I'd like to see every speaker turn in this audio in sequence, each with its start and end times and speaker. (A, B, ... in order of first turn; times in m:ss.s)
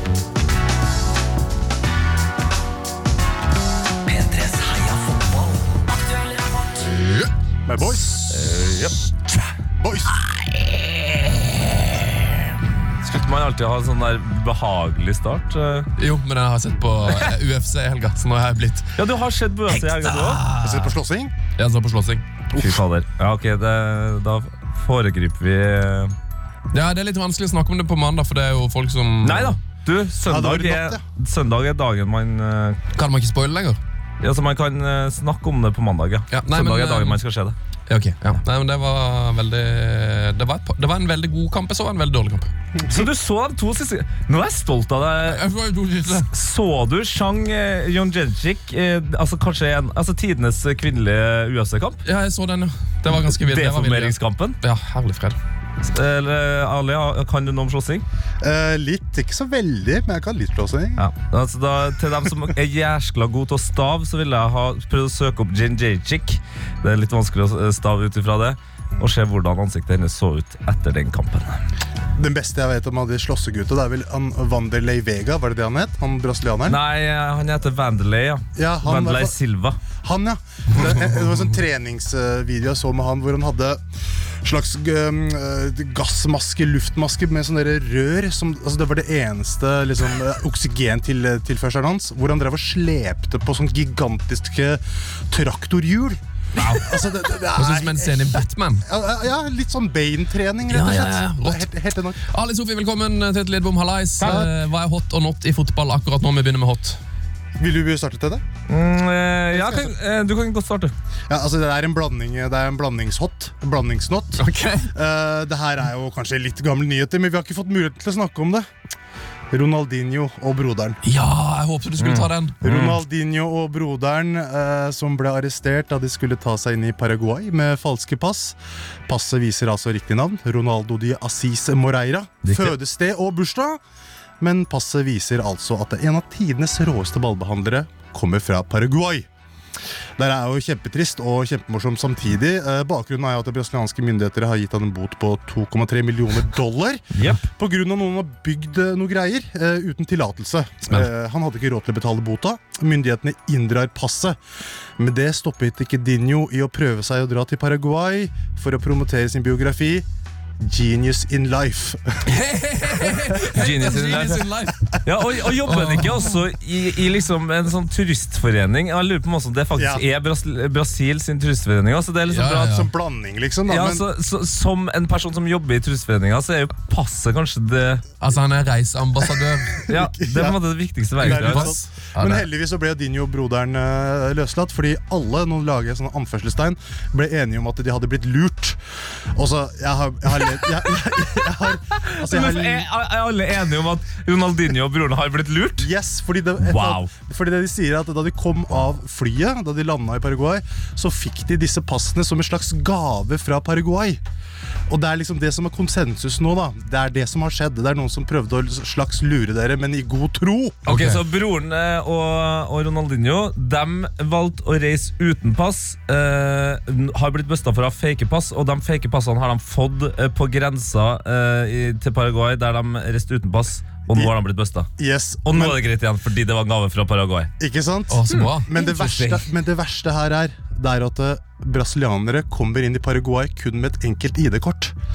0:04.1-0:05.9 A
0:06.8-0:07.3 B
0:07.6-0:08.1 C
0:08.3-0:09.4 A
0:09.8-0:10.2 C
0:10.3-0:12.4 A
0:13.0-0:15.9 A
0:16.0-0:18.9 B
0:19.0-0:20.4 A
0:19.7-0:21.0 B
0:20.6-0:21.3 C
0:21.6-0:22.2 B
0:22.5-0:26.1 A
0:26.7-0:29.6 B
0:29.2-0:32.8 A
0:30.2-0:31.0 C
0:32.9-0:33.8 B
0:34.2-0:37.6 A
0:36.3-0:37.2 B
0:37.9-0:42.5 B
0:42.8-0:43.1 C
0:42.8-0:45.5 A
0:45.2-0:46.3 B
0:46.0-0:52.0 A
0:52.0-0:55.4 B
0:53.1-0:54.6 A
0:55.8-0:58.0 A
0:58.4-1:01.0 C
1:01.0-1:11.6 A
1:12.2-1:16.8 C
1:16.6-1:19.8 A
1:18.6-1:19.4 C
1:20.0-1:23.8 C
1:24.4-1:36.2 C
1:36.6-1:36.9 B
1:36.7-1:42.2 C
1:37.6-1:38.8 B
1:40.7-1:41.6 B
1:42.2-1:47.0 B
1:44.2-1:44.4 A
1:44.2-1:44.5 C
1:47.6-1:48.4 C
1:48.7-1:50.9 A
1:49.5-1:49.9 C
1:51.3-1:58.7 C
1:54.4-1:54.9 B
1:59.5-2:01.0 C
2:01.0-2:02.6 B
2:02.0-2:03.0 A
2:02.6-2:13.8 C
2:12.4-2:12.8 A
2:14.4-2:19.2 C
2:20.2-2:34.4 C
2:27.1-2:27.4 A
2:35.0-2:40.0 C
2:40.6-2:42.2 C
2:42.3-2:45.0 B
2:43.4-2:52.7 A
2:45.6-2:46.4 B
2:49.7-2:50.0 C
2:52.3-2:52.9 B
2:52.6-2:54.0 C
2:53.7-2:58.0 A
2:58.2-2:59.9 B
2:59.8-3:00.6 C
2:59.9-3:01.8 A
3:01.2-3:02.4 B
3:01.2-3:08.8 C
3:09.3-3:12.9 C
3:10.4-3:10.9 A
3:11.9-3:15.9 A
3:15.8-3:24.2 C
3:16.6-3:17.1 A
3:24.9-3:30.8 C
3:30.8-3:31.2 B
3:30.8-3:44.9 A
3:45.0-3:45.8 C
3:45.4-3:47.5 A
3:47.6-3:54.9 C
3:48.1-3:48.7 B
3:48.3-3:49.5 A